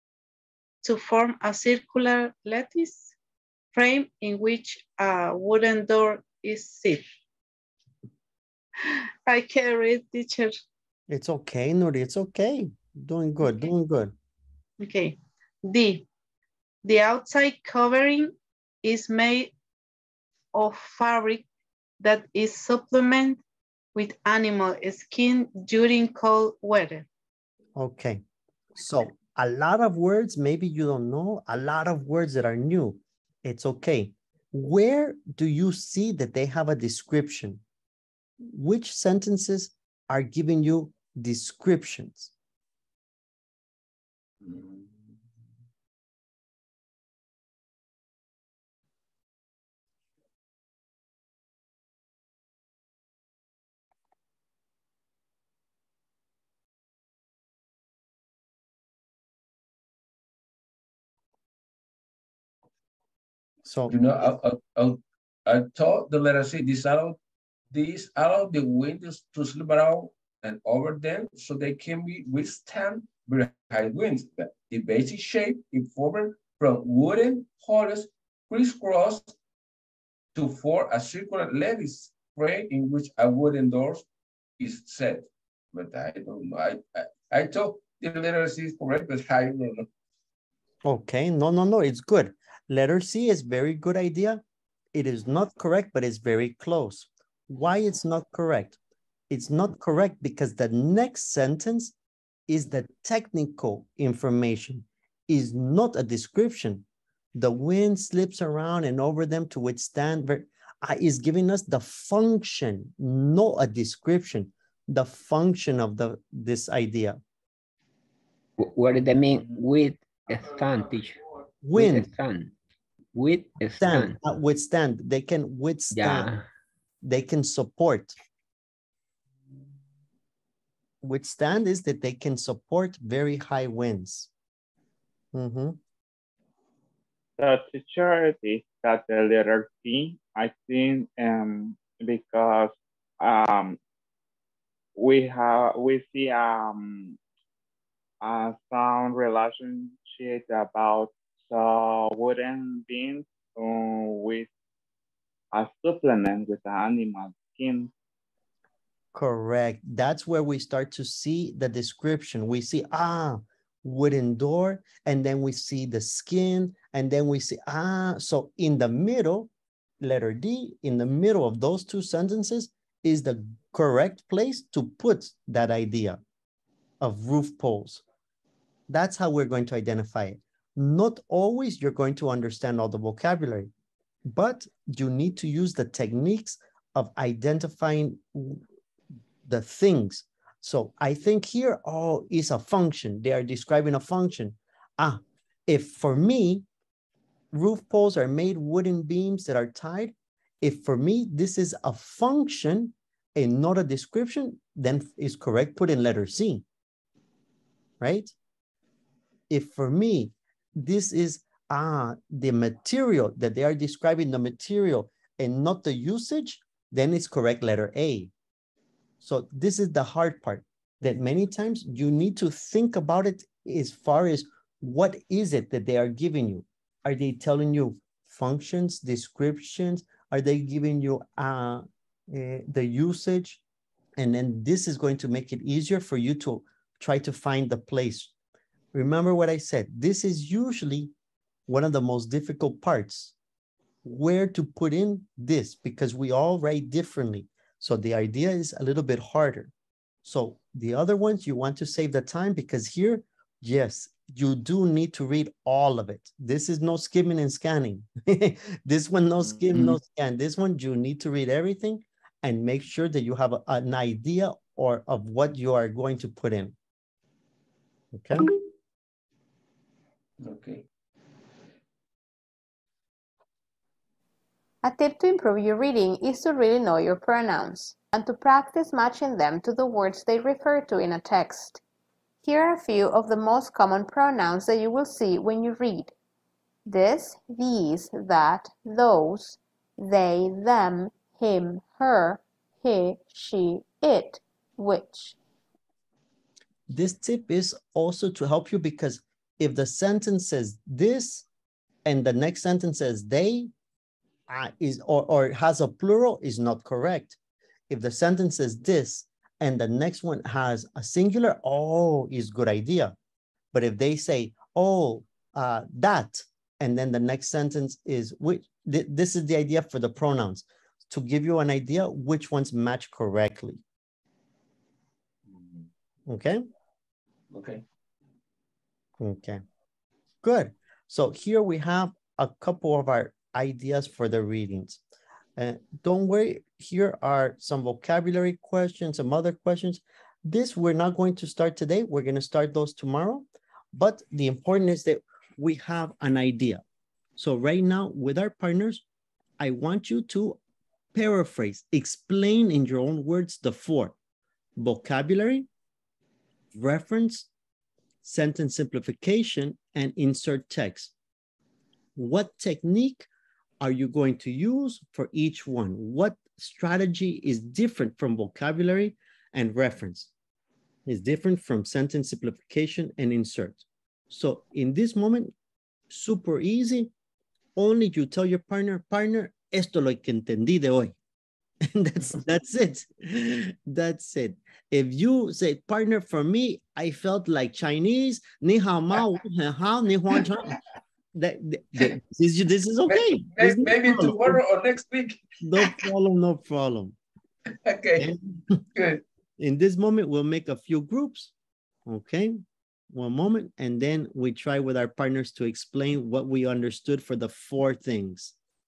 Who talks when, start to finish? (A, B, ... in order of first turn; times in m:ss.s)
0:00.8-0:03.1 A
0:03.7-0:07.0 A
0:08.8-0:10.5 A
0:11.1-0:14.1 B
0:14.8-0:16.0 A
0:16.8-0:19.5 A
0:20.5-0:21.4 A
0:22.0-0:23.4 A
0:24.0-0:27.0 A
0:27.8-0:28.2 B
0:28.8-0:37.6 B
0:38.4-0:42.3 B
0:44.4-0:45.1 C
1:03.7-1:04.3 B
1:03.9-1:07.2 C
1:07.7-1:19.3 C
1:20.3-1:24.0 C
1:24.6-1:29.9 C
1:30.8-1:34.4 B
1:34.9-1:38.8 B
1:39.3-1:41.9 B
1:42.5-1:57.2 B
1:58.6-2:01.2 D
2:01.6-2:02.1 B
2:01.7-2:02.6 D
2:03.1-2:04.2 D
2:03.8-2:06.3 B
2:05.9-2:06.4 D
2:07.0-2:08.1 B
2:11.0-2:14.3 B
2:15.3-2:15.8 B
2:17.4-2:23.8 E
2:25.0-2:27.2 E
2:28.2-2:34.5 E
2:35.5-2:37.9 E
2:39.1-2:49.5 B
2:50.0-2:56.2 B
2:57.0-2:58.0 B
2:58.9-3:03.7 B
3:04.3-3:08.6 B
3:09.4-3:16.6 B
3:17.5-3:26.6 B
3:28.0-3:28.3 B
3:29.5-3:38.3 B
3:39.2-3:53.6 B
3:54.2-3:58.3 B
3:58.9-4:01.1 B
4:01.7-4:03.3 B
4:04.0-4:09.7 B
4:10.2-4:26.7 B
4:28.1-4:28.5 B
4:30.4-4:30.9 C
4:34.8-4:41.8 F
4:42.4-4:46.1 F
4:46.9-4:55.4 F
4:56.9-5:01.4 B
5:02.0-5:03.7 B
5:04.5-5:07.4 B
5:07.9-5:13.2 B
5:13.7-5:23.8 B
5:25.5-5:25.9 C
5:26.3-5:26.6 B
5:27.5-5:27.8 C
5:29.2-5:29.6 B
5:30.4-5:35.0 B
5:35.6-5:46.8 B
5:47.4-5:49.0 B
5:49.6-5:50.6 B
5:51.1-5:54.1 B
5:54.8-5:55.7 B
5:56.7-5:57.5 B
5:58.2-6:01.1 B
6:02.2-6:03.3 B
6:03.8-6:10.3 B
6:11.0-6:15.5 B
6:16.1-6:17.1 B
6:17.8-6:21.2 B
6:21.8-6:30.8 B
6:31.3-6:34.6 B
6:33.1-6:36.0 C
6:35.6-6:37.2 B
6:37.8-6:38.3 C
6:38.2-6:38.8 B
6:39.0-6:39.2 C
6:39.6-6:41.5 B
6:42.0-6:48.6 B